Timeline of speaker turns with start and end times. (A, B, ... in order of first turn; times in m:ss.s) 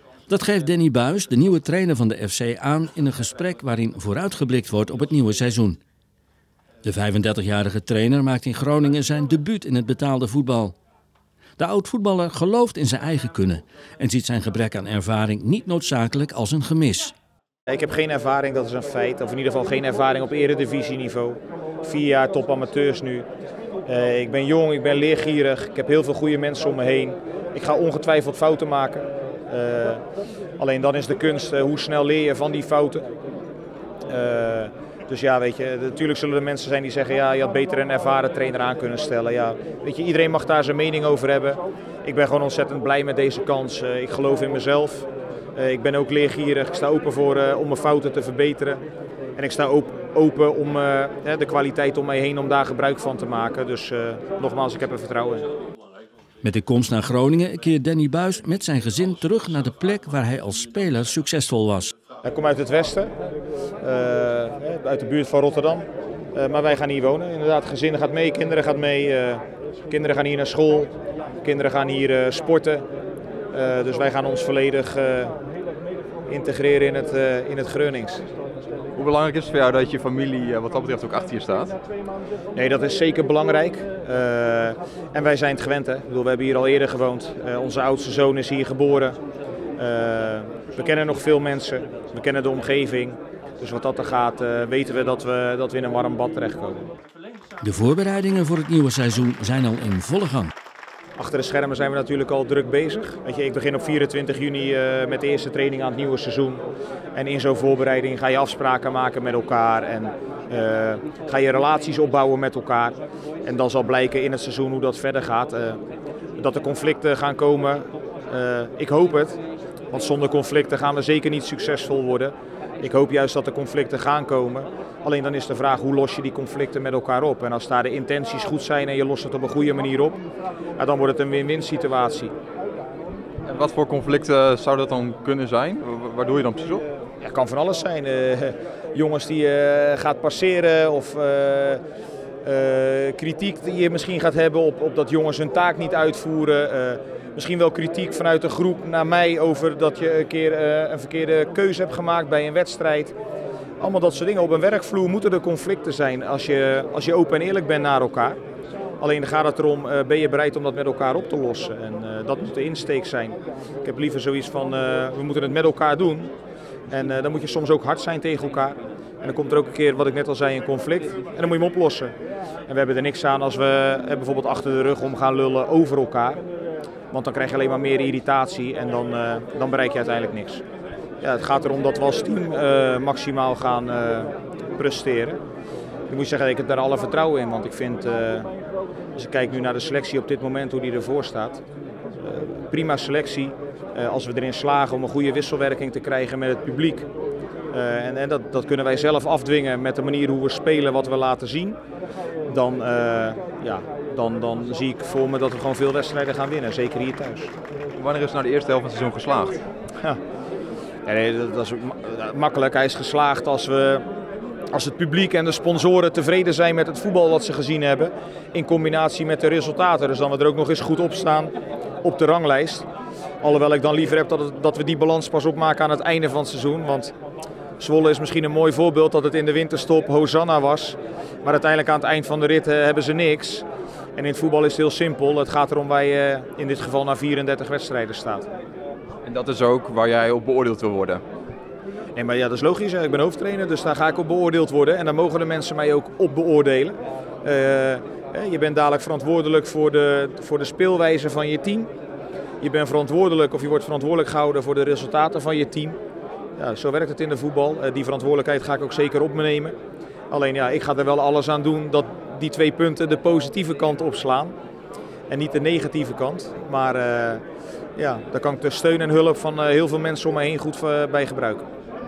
0:00.3-0:05.8 A
0:06.8-0:10.8 A
0:11.6-0:17.1 A
0:17.7-0:23.3 B
0:23.9-0:30.0 B
0:30.6-0:33.1 B
0:34.1-0:48.8 B
0:49.4-0:55.5 B
0:56.4-1:01.9 A
1:02.2-1:03.1 B
1:03.8-1:10.9 B
1:11.4-1:12.8 B
1:13.5-1:15.4 B
1:16.3-1:18.2 B
1:19.0-1:21.8 C
1:22.6-1:29.2 B
1:29.8-1:36.9 B
1:37.6-1:40.5 A
1:41.2-1:46.6 B
1:47.1-1:55.8 B
1:56.4-1:59.4 B
1:59.9-2:10.2 B
2:10.8-2:12.3 B
2:13.4-2:16.8 C
2:17.2-2:21.8 B
2:22.4-2:33.2 B
2:33.8-2:38.4 B
2:39.0-2:46.3 B
2:46.9-2:52.1 B
2:52.7-2:56.4 B
2:57.1-3:00.6 B
3:01.2-3:05.4 B
3:06.1-3:08.5 B
3:09.2-3:11.6 B
3:12.2-3:17.1 B
3:17.7-3:21.8 B
3:22.5-3:27.5 B
3:28.0-3:29.6 C
3:31.0-3:34.0 B
3:34.7-3:42.9 B
3:43.4-3:47.1 B
3:47.8-3:58.5 B
3:59.3-4:01.2 C
4:02.2-4:11.9 B
4:12.6-4:16.0 B
4:16.6-4:19.8 B
4:20.3-4:24.6 B
4:25.3-4:27.4 B
4:28.0-4:31.7 B